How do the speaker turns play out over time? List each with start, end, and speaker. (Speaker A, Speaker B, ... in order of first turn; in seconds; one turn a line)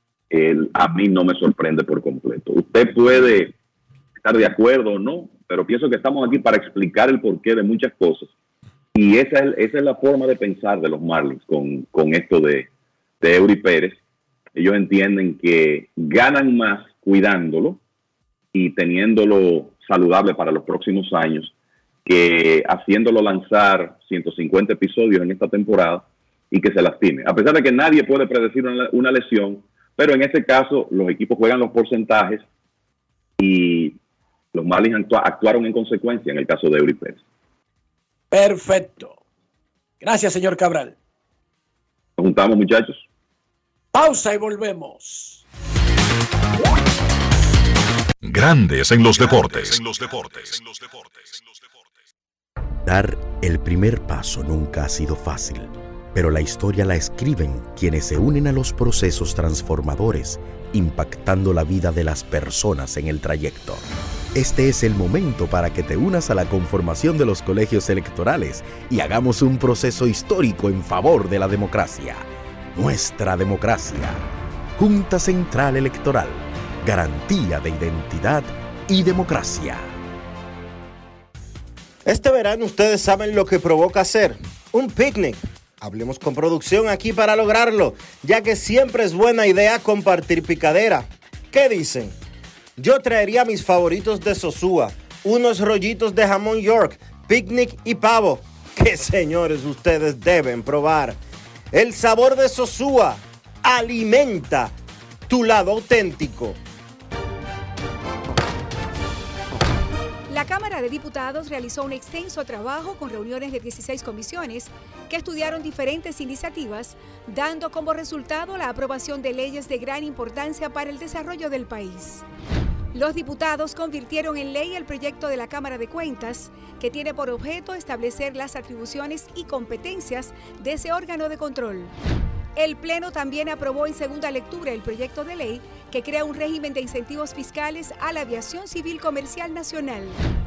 Speaker A: 0.3-3.5
Speaker A: 4.2-8.3
Speaker A: 8.9-12.7
Speaker A: 13.2-14.0
Speaker A: 14.5-17.8
Speaker A: 18.5-21.5
Speaker A: 22.0-32.4
Speaker A: 33.4-34.0
Speaker A: 34.5-37.2
Speaker B: 38.3-39.2
Speaker B: 40.0-40.9
Speaker A: 42.2-43.0
Speaker B: 43.9-45.4
Speaker C: 48.2-51.6
Speaker D: 52.8-63.8
Speaker D: 64.3-74.2
Speaker D: 74.8-79.9
Speaker E: 82.0-92.1
Speaker E: 92.8-101.2
Speaker E: 101.7-104.7
Speaker E: 105.3-106.6
Speaker F: 110.3-122.2
Speaker F: 122.9-131.9
Speaker F: 132.6-140.2